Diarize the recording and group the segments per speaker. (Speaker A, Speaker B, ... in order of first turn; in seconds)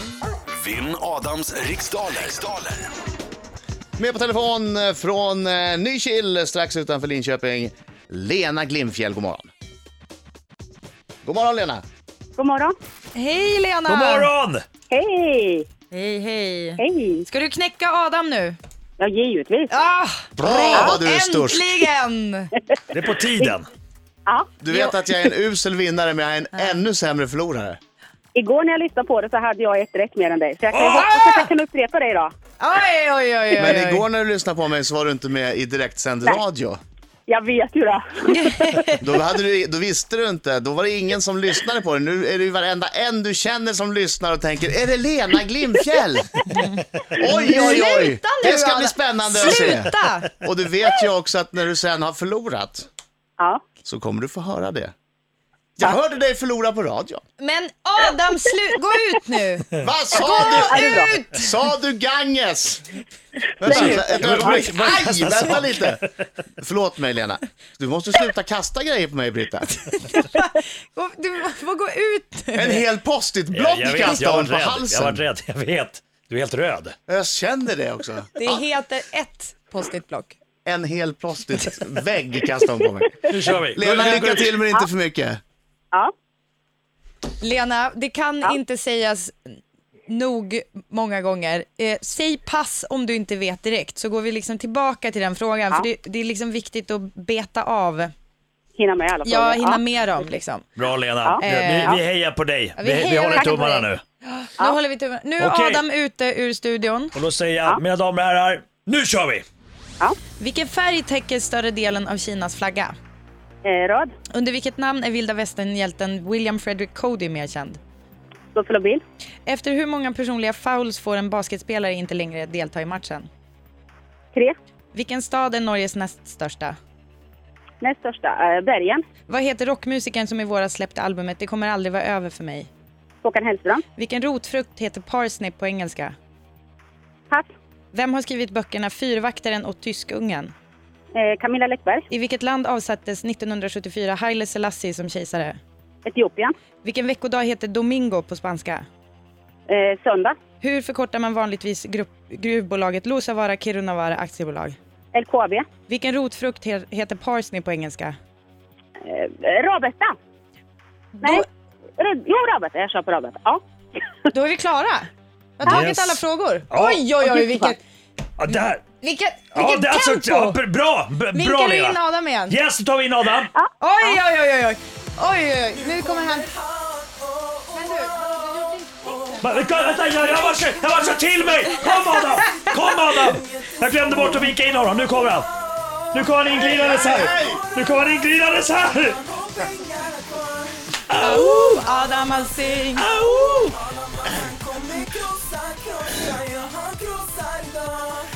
Speaker A: 0.5-2.9
Speaker B: 4.0-9.5, 11.2-11.8, 20.4-21.8, 24.6-27.8, 33.5-36.8, 39.0-46.4, 47.2-52.9, 53.8-54.9, 55.8-57.2, 59.8-62.9, 63.6-66.0, 66.6-70.0, 72.5-75.2, 77.1-78.6, 80.6-85.4, 186.9-187.7
Speaker C: 12.4-12.8, 14.9-15.7, 16.8-17.2, 19.0-19.7, 24.2-24.5, 28.3-32.3, 37.3-38.4, 60.7-61.1, 98.8-99.8, 101.2-102.0, 103.3-103.8, 113.6-114.1, 118.5-119.0, 127.8-129.0, 133.2-133.8, 141.1-142.1, 146.1-146.5, 149.7-150.4, 155.1-155.7, 159.0-160.1, 162.0-163.6, 167.3-167.8
Speaker D: 13.1-14.3, 15.9-18.6, 19.7-22.5, 26.5-26.8, 32.6-34.0, 38.3-39.0, 46.5-50.3, 57.4-61.5, 70.0-72.8, 78.3-80.4, 87.4-89.3, 90.1-98.1, 99.2-100.7, 101.4-101.9, 102.8-107.1, 110.4-112.9, 114.3-117.8, 119.5-123.3, 124.9-126.8, 129.3-132.7, 133.9-136.2, 137.9-140.5, 142.1-145.6, 146.8-148.9, 150.6-154.8, 155.9-158.2, 161.2-161.4, 164.3-167.8, 168.5-170.6, 171.3-172.6, 173.8-179.4, 181.7-182.8, 186.7-187.2, 189.3-190.4, 191.2-193.1, 194.5-198.1
Speaker E: 13.9-14.6, 22.9-23.7, 30.7-31.5, 63.7-66.1, 73.5-77.0, 83.3-84.5, 100.8-104.0, 105.4-105.8, 107.1-109.4, 165.7-167.1, 168.4-168.8, 169.5-173.5, 179.4-185.5, 186.1-189.2, 191.1-191.8, 193.0-193.8